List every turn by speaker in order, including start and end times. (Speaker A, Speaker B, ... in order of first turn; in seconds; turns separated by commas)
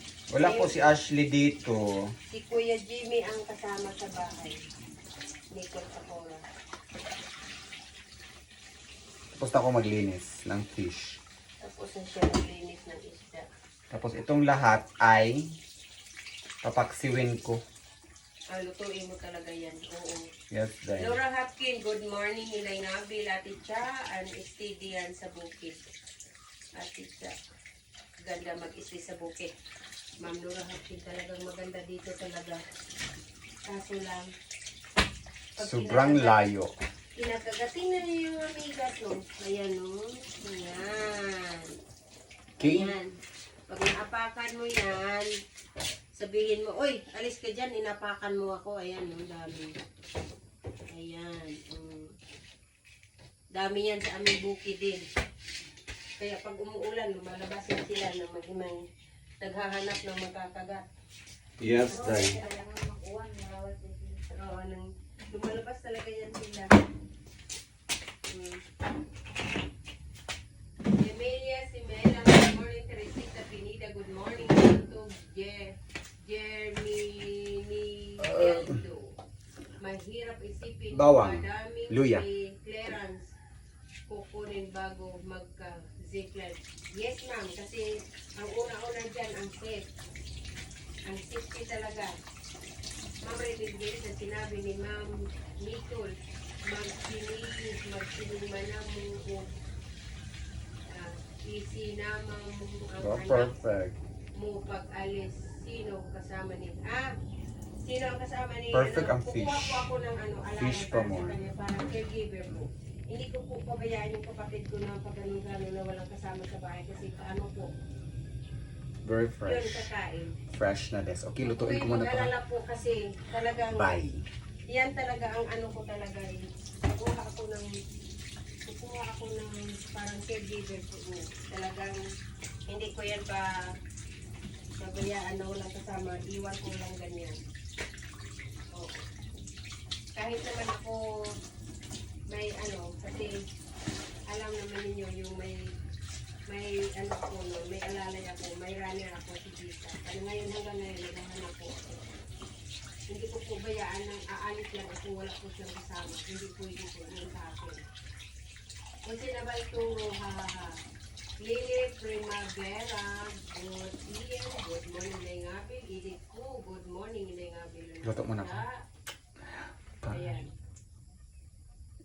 Speaker A: 0.3-2.1, Speaker B: 0.4-0.8, Speaker B: 2.3-4.6, Speaker B: 5.5-6.4, Speaker A: 9.3-11.2, Speaker B: 11.6-13.4, Speaker A: 13.9-15.6, Speaker A: 16.6-17.6, Speaker B: 18.5-20.3, Speaker A: 20.5-21.2, Speaker B: 21.0-25.8, Speaker B: 26.8-27.4, Speaker B: 28.2-29.5, Speaker B: 30.2-32.6, Speaker B: 33.7-34.3, Speaker B: 35.6-36.5, Speaker A: 35.6-36.7, Speaker B: 37.1-41.8, Speaker A: 42.6-42.9, Speaker B: 42.6-43.1, Speaker B: 43.7-45.3, Speaker B: 46.1-49.7, Speaker B: 50.9-52.1, Speaker B: 53.5-55.0, Speaker B: 56.2-58.8, Speaker B: 59.4-60.9, Speaker A: 61.6-62.4, Speaker C: 61.9-64.2, Speaker B: 64.3-66.8, Speaker B: 68.3-68.6, Speaker B: 71.0-79.1, Speaker A: 78.2-78.8, Speaker B: 79.8-83.3, Speaker A: 80.9-82.2, Speaker B: 84.1-89.9, Speaker B: 91.0-92.1, Speaker B: 93.2-96.1, Speaker B: 96.6-99.5, Speaker B: 100.9-103.5, Speaker A: 103.0-104.0, Speaker B: 104.3-107.1, Speaker B: 107.8-117.7, Speaker A: 108.7-109.9, Speaker A: 110.5-111.3, Speaker A: 119.0-119.9, Speaker B: 119.4-120.3, Speaker A: 120.5-122.3, Speaker B: 121.4-124.0, Speaker A: 123.7-124.2, Speaker B: 124.7-127.7, Speaker B: 128.6-132.0, Speaker B: 132.7-133.7, Speaker B: 134.8-137.4, Speaker B: 138.7-139.0, Speaker B: 140.2-141.0, Speaker B: 142.3-143.4, Speaker B: 144.3-145.7, Speaker B: 146.5-152.0, Speaker B: 153.1-157.8, Speaker B: 159.0-160.8, Speaker B: 161.4-168.8, Speaker A: 168.0-168.6, Speaker A: 170.0-170.4, Speaker B: 170.1-170.5